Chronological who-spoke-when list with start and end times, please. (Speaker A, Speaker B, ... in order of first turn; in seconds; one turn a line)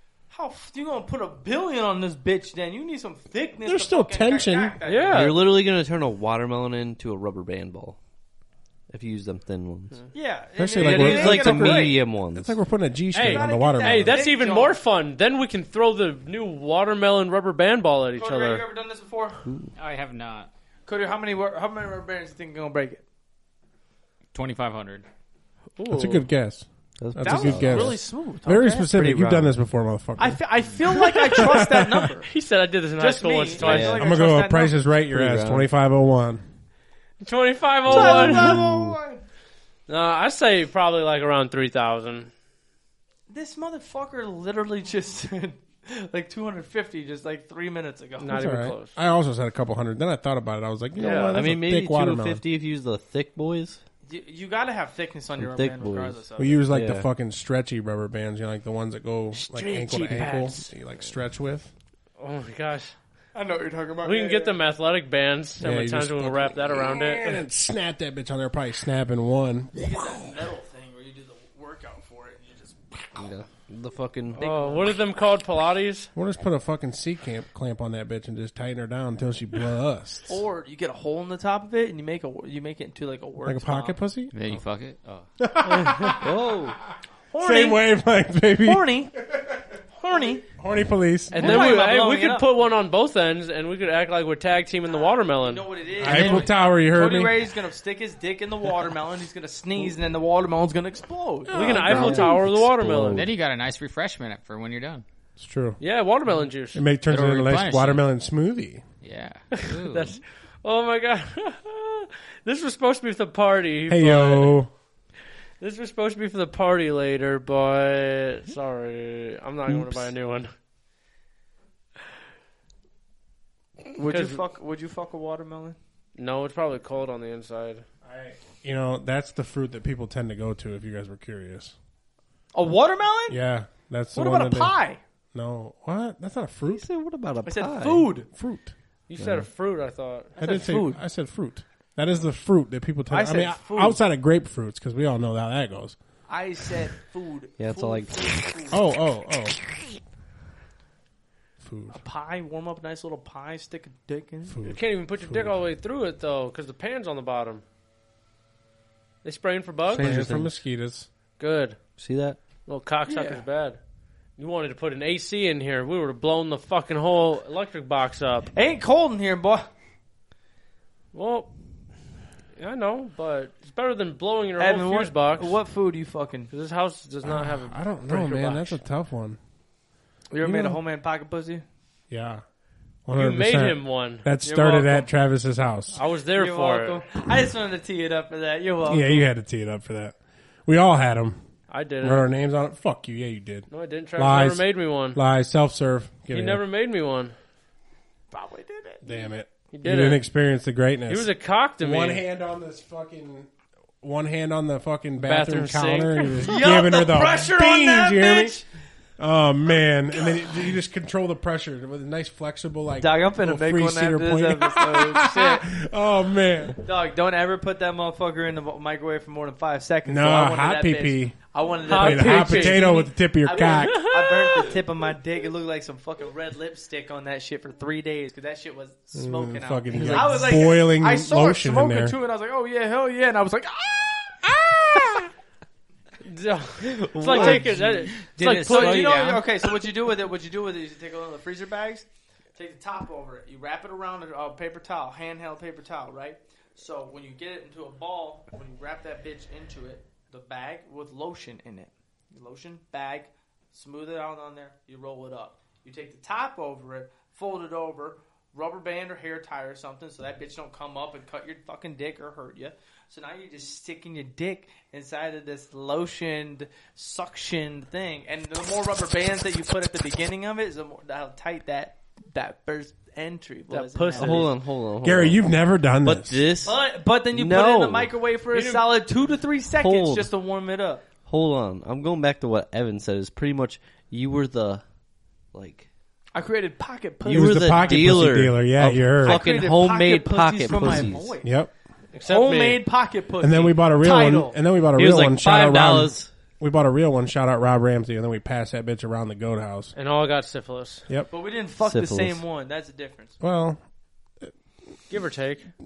Speaker A: 0.3-5.4
Speaker B: 3.6-4.8
Speaker C: 4.8-5.5
Speaker D: 5.1-8.0
Speaker D: 8.9-10.0
Speaker A: 10.1-12.0
Speaker B: 10.6-14.2
Speaker D: 10.8-12.5
Speaker C: 13.1-18.6
Speaker A: 13.2-14.8
Speaker A: 18.2-19.4
Speaker D: 19.4-19.7
Speaker E: 19.8-20.5
Speaker A: 20.9-23.0
Speaker E: 24.3-25.1
Speaker C: 25.8-26.3
Speaker B: 25.9-32.1
Speaker D: 27.0-28.0
Speaker A: 27.2-28.9
Speaker D: 28.9-29.5
Speaker A: 30.2-32.3
Speaker C: 31.4-31.6
Speaker C: 32.3-34.0
Speaker A: 33.0-34.8
Speaker D: 33.6-34.0
Speaker B: 34.0-36.4
Speaker D: 35.1-35.7
Speaker C: 37.2-38.6
Speaker A: 37.9-39.2
Speaker D: 37.9-39.0
Speaker C: 39.9-42.3
Speaker A: 43.3-48.4
Speaker C: 48.2-49.0
Speaker B: 48.3-52.4
Speaker C: 51.0-51.5
Speaker D: 51.3-53.8
Speaker A: 54.1-56.7
Speaker D: 55.4-57.1
Speaker B: 56.4-61.7
Speaker C: 59.3-60.7
Speaker C: 62.2-63.0
Speaker A: 63.4-64.6
Speaker C: 64.0-67.4
Speaker B: 65.6-69.8
Speaker A: 69.8-73.3
Speaker D: 73.2-74.4
Speaker A: 74.3-75.0
Speaker C: 74.4-76.1
Speaker B: 76.2-80.4
Speaker A: 80.3-84.0
Speaker B: 83.5-84.3
Speaker E: 84.3-85.3
Speaker B: 85.4-86.5
Speaker C: 85.7-86.2
Speaker D: 86.2-86.8
Speaker A: 87.3-87.9
Speaker B: 87.4-89.6
Speaker A: 88.6-89.1
Speaker A: 90.0-90.4
Speaker B: 90.4-91.8
Speaker C: 91.3-95.7
Speaker A: 91.3-92.5
Speaker A: 94.9-101.6
Speaker B: 96.0-97.4
Speaker E: 96.1-96.4
Speaker B: 101.5-102.5
Speaker C: 101.5-103.3
Speaker D: 101.6-103.3
Speaker E: 103.2-105.0
Speaker B: 105.4-105.8
Speaker C: 105.8-106.8
Speaker B: 106.7-108.8
Speaker E: 107.1-108.1
Speaker E: 109.0-110.2
Speaker C: 109.5-114.6
Speaker B: 113.9-114.7
Speaker C: 115.6-120.5
Speaker D: 119.7-120.1
Speaker A: 123.9-125.8
Speaker C: 124.1-124.4
Speaker C: 126.2-127.8
Speaker B: 128.0-131.8
Speaker A: 132.5-133.4
Speaker B: 133.3-134.8
Speaker A: 134.1-135.0
Speaker B: 135.3-136.9
Speaker D: 136.7-138.1
Speaker A: 137.4-138.3
Speaker B: 138.3-138.7
Speaker C: 139.1-140.4
Speaker D: 139.2-139.5
Speaker B: 140.4-146.0
Speaker A: 140.4-141.0
Speaker A: 143.1-144.0
Speaker A: 146.3-148.8
Speaker D: 147.6-148.5
Speaker B: 148.7-149.6
Speaker B: 151.6-152.0
Speaker A: 151.9-154.6
Speaker B: 154.5-155.6
Speaker C: 154.7-157.6
Speaker C: 159.2-160.3
Speaker D: 159.9-160.5
Speaker B: 159.9-161.1
Speaker C: 161.4-161.8
Speaker D: 162.0-162.4
Speaker C: 162.7-163.8
Speaker A: 163.1-163.4
Speaker C: 164.4-168.5
Speaker A: 168.5-169.7
Speaker C: 171.1-171.5
Speaker C: 172.6-175.6
Speaker A: 174.6-176.5
Speaker C: 176.5-178.8
Speaker B: 177.2-179.4
Speaker A: 180.3-181.7
Speaker B: 182.1-182.4
Speaker B: 183.1-186.0
Speaker C: 183.2-184.3
Speaker A: 184.4-185.1
Speaker C: 185.9-187.0
Speaker A: 186.3-189.3
Speaker B: 188.9-191.4
Speaker C: 191.7-192.3
Speaker B: 192.0-196.6
Speaker C: 193.7-195.2
Speaker C: 196.3-197.3
Speaker A: 198.3-199.3
Speaker B: 199.0-203.5
Speaker C: 199.7-200.2
Speaker C: 201.1-202.2
Speaker B: 204.0-208.6
Speaker C: 205.2-206.5
Speaker A: 206.4-208.7
Speaker B: 209.2-216.8
Speaker A: 213.0-215.7
Speaker A: 216.8-234.4
Speaker B: 220.1-224.1
Speaker C: 221.9-223.0
Speaker C: 223.5-224.8
Speaker B: 229.1-232.2
Speaker D: 229.9-230.6
Speaker B: 234.5-235.3
Speaker C: 236.2-239.2
Speaker D: 236.8-238.4
Speaker A: 237.3-237.7
Speaker E: 238.2-239.5
Speaker A: 238.6-274.5
Speaker C: 273.7-274.5
Speaker D: 274.1-275.4
Speaker B: 275.0-276.4
Speaker D: 276.0-278.1
Speaker A: 276.6-281.0
Speaker C: 278.5-278.9
Speaker D: 279.8-280.3
Speaker D: 281.3-284.8
Speaker D: 285.5-285.9
Speaker A: 286.3-288.2
Speaker D: 287.2-291.4
Speaker B: 287.3-289.5
Speaker A: 289.2-291.5
Speaker B: 291.4-291.7
Speaker C: 292.1-292.8
Speaker A: 292.2-294.6
Speaker B: 293.4-299.9
Speaker D: 295.0-296.3
Speaker C: 300.0-301.0
Speaker A: 301.3-303.4
Speaker D: 301.8-302.4
Speaker B: 303.4-303.8
Speaker C: 305.1-305.7